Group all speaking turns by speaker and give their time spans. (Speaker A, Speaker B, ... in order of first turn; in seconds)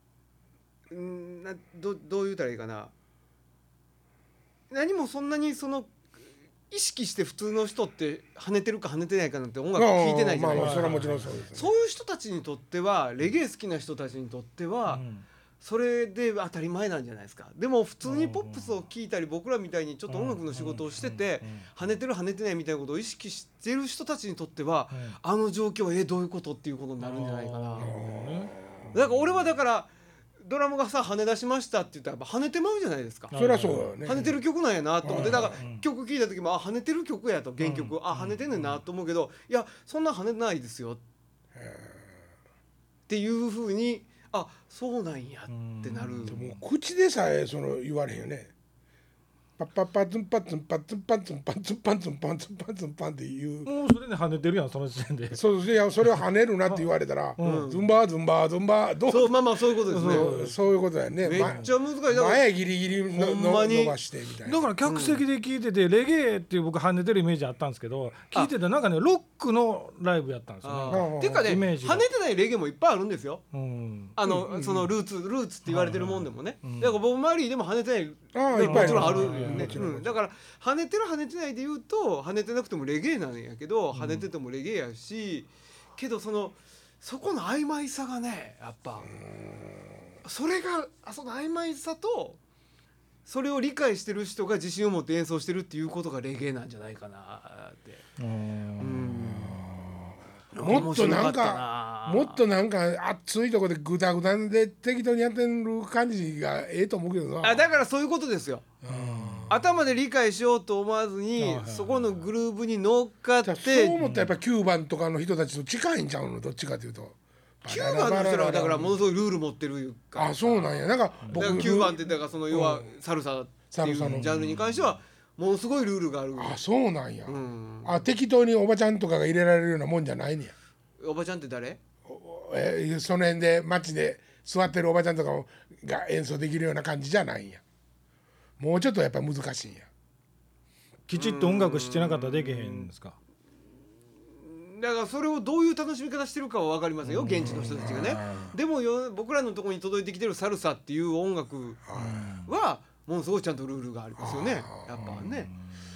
Speaker A: 0.9-2.9, 4.7-5.9, 6.7-15.0, 15.6-27.9, 28.9-29.9, 30.4-33.3, 34.0-41.0, 43.1-46.4, 57.4-57.8, 59.1-60.3, 61.2-62.4, 63.1-63.9, 64.8-65.2, 70.6-73.4, 74.2-89.1, 90.2-92.4, 93.2-98.0, 98.8-99.7, 100.6-102.4, 107.4-108.7, 109.5-114.0, 117.7-120.7, 121.3-126.6, 127.3-128.0, 131.0-131.8, 141.1-142.9, 144.3-151.8, 152.4-155.5
Speaker B: 9.8-11.7, 27.8-28.9, 33.3-34.4, 35.0-35.6, 41.5-42.1, 46.3-48.5, 49.6-53.7, 55.3-59.3, 60.0-64.6, 70.9-71.6, 74.3-74.9, 78.3-80.1, 89.2-89.8, 99.4-100.0, 100.5-107.6, 108.8-109.6, 113.4-119.0, 120.1-122.9, 123.7-124.3, 126.3-130.5, 132.1-137.6, 138.6-139.9, 147.4-148.5, 151.8-152.3, 154.2-155.1
Speaker C: 10.6-11.4, 14.9-15.2, 18.0-18.7, 20.1-21.7, 24.9-25.2, 27.0-28.6, 33.3-33.9, 35.1-35.8, 37.6-38.8, 45.5-46.6, 53.6-55.4, 57.4-57.7, 59.9-60.6, 61.4-61.7, 64.4-72.0, 73.5-74.1, 75.7-76.9, 78.6-79.8, 83.9-84.2, 98.2-99.1, 108.8-109.5, 111.4-112.3, 114.0-114.3, 121.2-121.6, 124.0-124.9, 141.1-143.2, 147.1-148.5, 151.9-152.5, 155.0-155.6